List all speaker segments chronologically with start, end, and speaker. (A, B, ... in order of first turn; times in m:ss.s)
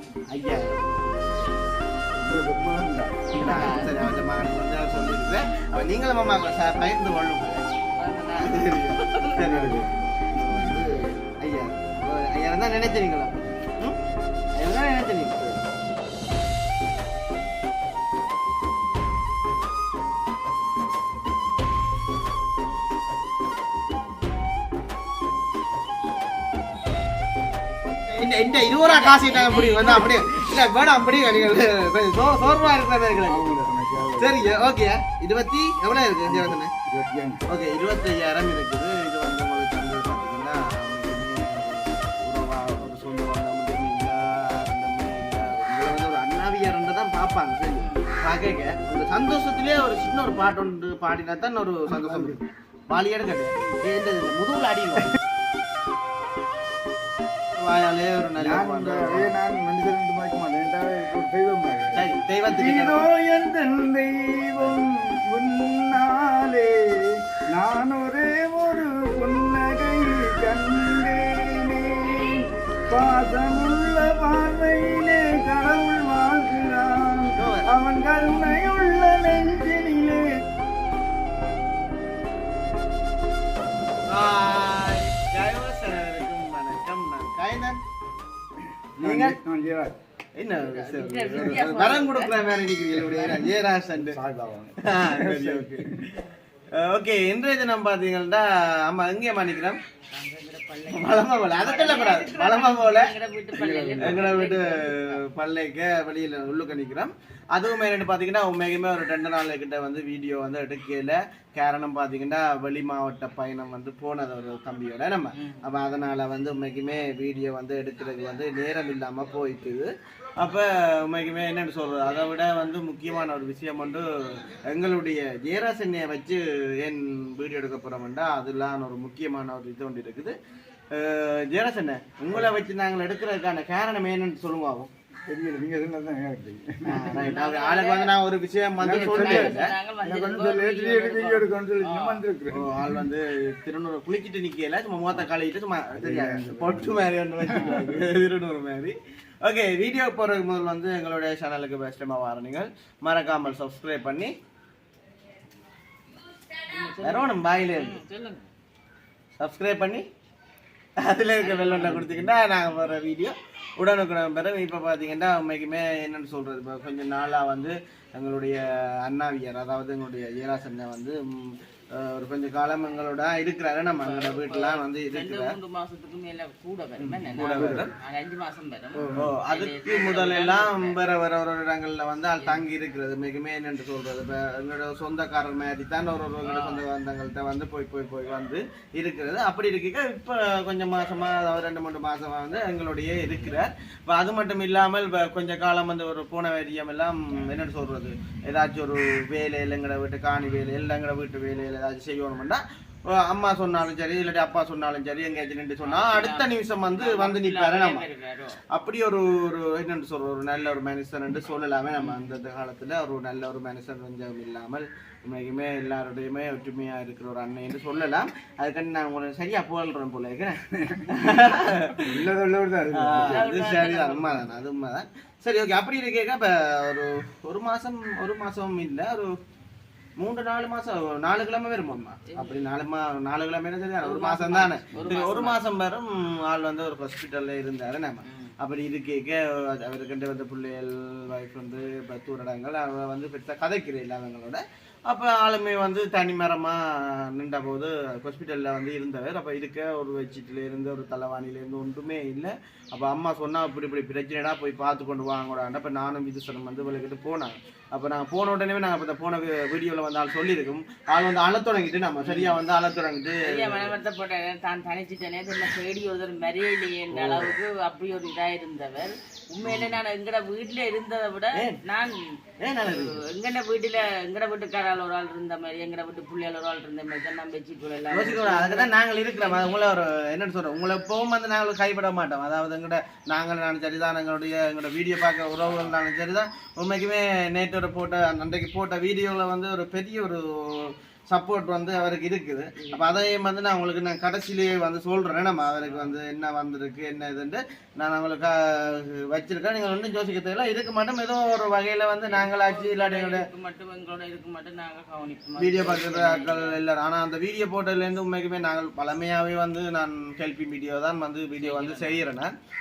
0:00.3-0:01.0 A
0:02.2-0:03.3 B
0:03.4-0:07.6 A
0:03.4-0:04.1 C
0:08.0-0:09.4 C
0:08.4-0:14.0 A
0:09.4-0:10.0 B
0:14.6-0:15.6 A
0:28.1-0:33.5 A
0:28.7-0:30.3 C
0:33.2-0:34.6 B
0:34.2-0:36.7 A
0:36.2-0:37.4 B
0:37.5-0:55.2 A
0:47.7-0:48.1 C
0:51.9-0:52.4 B
0:57.6-0:59.4 A
0:58.4-1:06.7 B
1:01.9-1:03.1 A
1:07.5-1:20.2 B
1:17.4-1:17.7 A
1:24.1-1:27.8 A
1:29.0-1:29.9 B
1:29.0-1:29.4 A
1:30.4-1:34.2 A
1:30.6-1:32.3 C
1:33.0-1:33.3 B
1:33.1-1:33.4 C
1:33.9-1:36.0 B
1:34.8-1:35.9 A
1:36.8-1:39.8 A
1:40.1-1:45.2 C
1:40.9-1:43.1 A
1:43.6-1:44.3 B
1:44.0-2:10.3 A
1:55.3-1:55.6 C
2:10.9-2:14.9 A
2:15.3-2:17.3 B
2:16.9-2:19.7 A
2:16.9-2:18.1 C
2:18.8-2:23.0 B
2:18.9-2:22.2 C
2:22.5-2:34.3 A
2:25.9-2:27.9 B
2:36.6-2:38.5 C
2:37.0-2:38.0 A
2:39.4-2:40.0 A
2:41.0-2:55.6 A
2:41.4-2:42.3 C
2:53.9-3:01.0 C
2:57.0-2:57.9 A
2:57.4-2:57.9 B
2:59.0-2:59.3 B
2:59.1-3:28.0 A
3:02.4-3:02.6 C
3:06.4-3:06.8 C
3:25.8-3:28.6 C
3:28.7-3:42.3 A
3:32.0-3:32.3 C
3:42.0-3:43.4 B
3:42.9-3:49.3 A
3:43.2-3:44.5 C
3:50.2-4:24.0 A
3:52.2-3:52.6 C
3:54.0-3:55.6 C
3:58.2-3:58.5 C
4:22.2-4:22.6 C
4:23.4-4:39.6 C
4:27.1-4:27.6 A
4:29.6-4:30.0 A
4:31.5-4:31.8 A
4:32.6-4:33.2 A
4:38.1-5:03.4 A
4:45.6-4:45.9 C
4:52.7-4:53.3 C
4:55.8-4:56.1 C
5:02.3-5:06.8 C
5:05.6-5:12.5 A
5:11.6-5:12.2 C